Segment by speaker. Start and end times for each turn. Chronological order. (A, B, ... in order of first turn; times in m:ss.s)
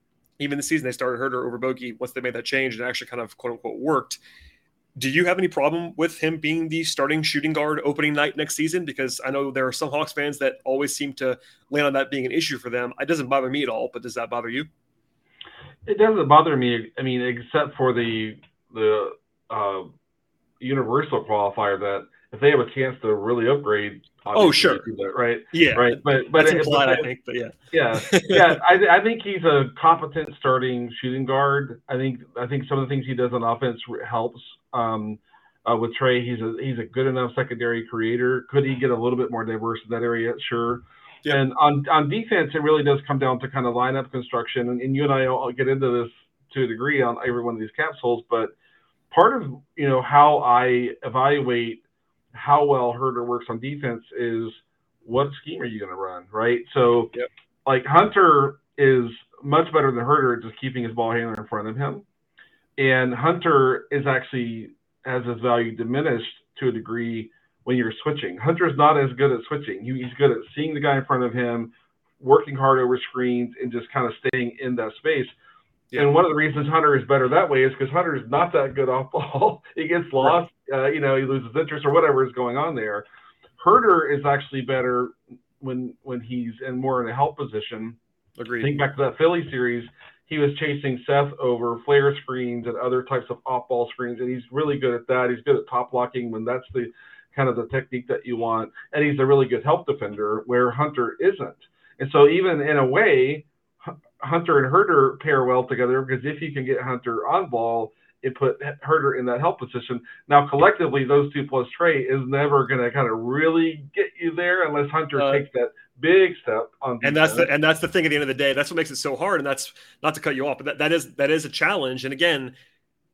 0:00.4-0:04.2 A
0:05.0-0:14.7 A
0:15.9-0:19.9 B
0:20.6-0:27.1 B
0:24.3-0:24.9 A
0:25.5-0:28.6 A
0:27.7-0:48.5 B
0:49.1-0:57.1 B
0:57.7-1:02.0 B
1:02.8-1:15.3 B
1:16.0-1:23.0 B
1:23.6-1:28.0 B
1:28.4-1:28.7 A
1:28.6-1:57.5 B
1:55.2-1:55.4 A
1:57.0-2:02.5 A